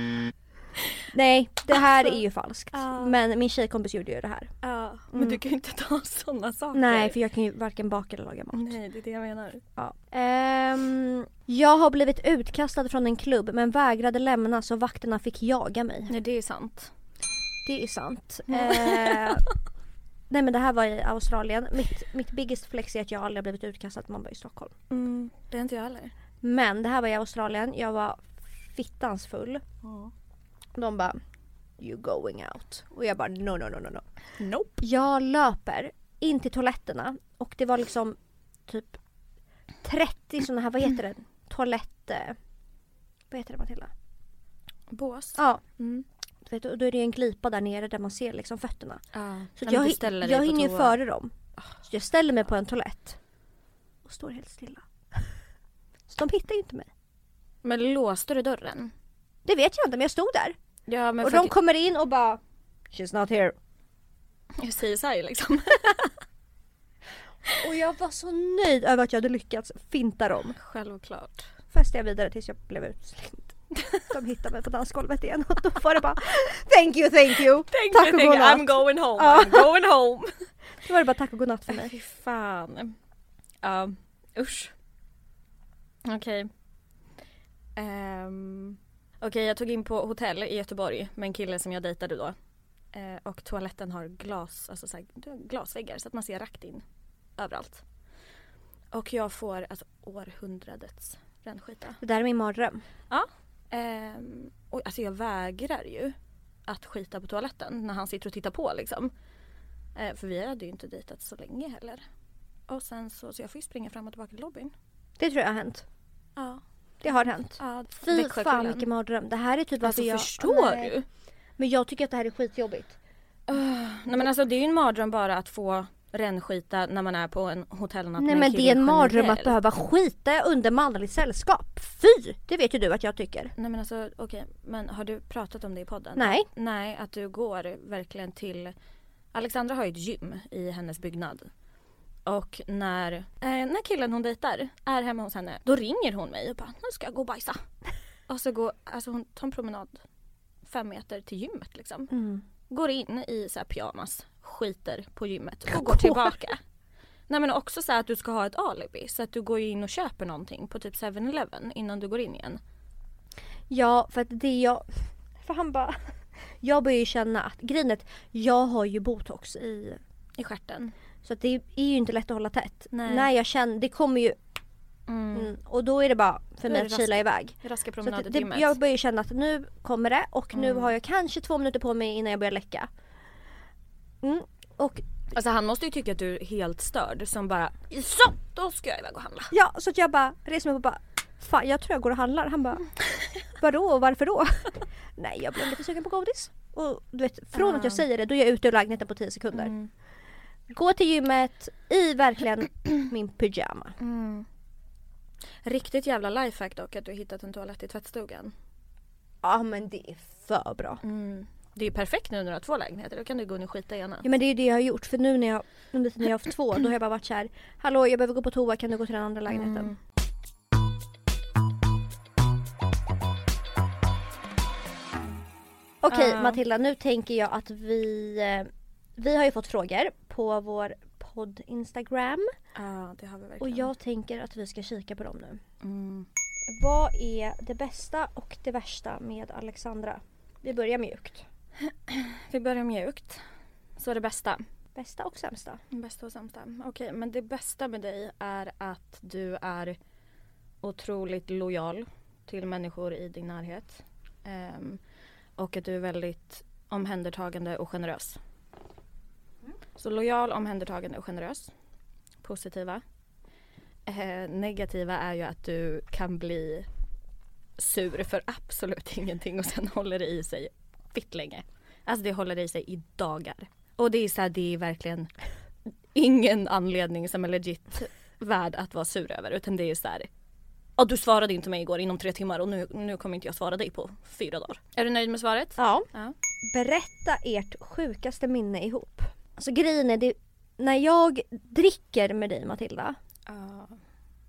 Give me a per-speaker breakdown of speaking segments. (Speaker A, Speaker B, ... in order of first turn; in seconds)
Speaker A: 1.1-4.5, 5.1-5.4, 6.7-8.8, 9.8-16.1, 17.7-19.4, 20.3-24.7, 26.4-29.6, 30.8-31.2, 31.8-34.1, 34.8-38.2, 38.7-39.0, 39.8-42.4, 43.3-43.9, 45.4-45.6, 46.5-49.0, 49.6-53.2, 54.0-55.3, 56.1-56.9, 59.5-60.6, 61.2-62.4, 62.9-63.5, 67.5-70.6, 71.7-79.8, 80.8-81.9, 102.0-102.8, 115.2-115.8, 117.0-120.9, 121.6-123.0, 128.2-133.5, 136.2-136.5, 152.1-152.4, 155.7-156.3, 163.7-166.0, 166.6-170.0, 171.2-174.4, 175.3-182.9, 184.2-185.0, 189.5-192.9, 193.6-199.7, 200.7-204.0, 209.4-211.0, 214.2-219.9, 226.0-232.5, 233.6-235.6, 236.7-241.4, 244.9-245.8, 285.8-286.1, 286.6-293.2
Speaker B: 1.8-2.1, 2.7-3.2, 4.6-7.2, 8.5-9.6, 16.1-16.9, 18.5-19.4, 24.9-26.1, 29.8-30.1, 34.4-34.8, 44.9-46.1, 49.1-51.0, 57.6-58.9, 60.9-61.5, 64.6-66.2, 70.6-71.5, 77.7-80.3, 81.7-83.0, 83.6-84.7, 86.0-86.5, 87.8-92.4, 92.9-96.8, 97.4-97.8, 98.9-102.0, 103.1-106.2, 106.7-109.1, 110.0-112.0, 112.7-114.7, 116.4-116.6, 117.6-118.9, 119.8-121.0, 123.5-129.6, 133.6-138.8, 139.3-141.5, 142.2-147.6, 148.3-150.0, 150.6-152.1, 152.7-156.6, 157.3-162.6, 170.4-170.9, 172.9-173.3, 175.1-175.5, 176.7-178.8, 180.5-180.9, 185.3-189.5, 197.5-198.1, 199.5-199.9, 204.0-204.5, 205.6-208.5, 211.0-214.3, 219.5-220.0, 226.1-226.6, 232.8-233.9, 235.8-236.3, 241.8-243.4, 244.0-244.6, 245.9-250.0, 250.8-255.0, 255.6-258.4, 260.0-261.7, 262.4-263.0, 264.1-266.9, 267.8-275.3, 276.1-280.3, 281.0-286.4, 293.5-294.0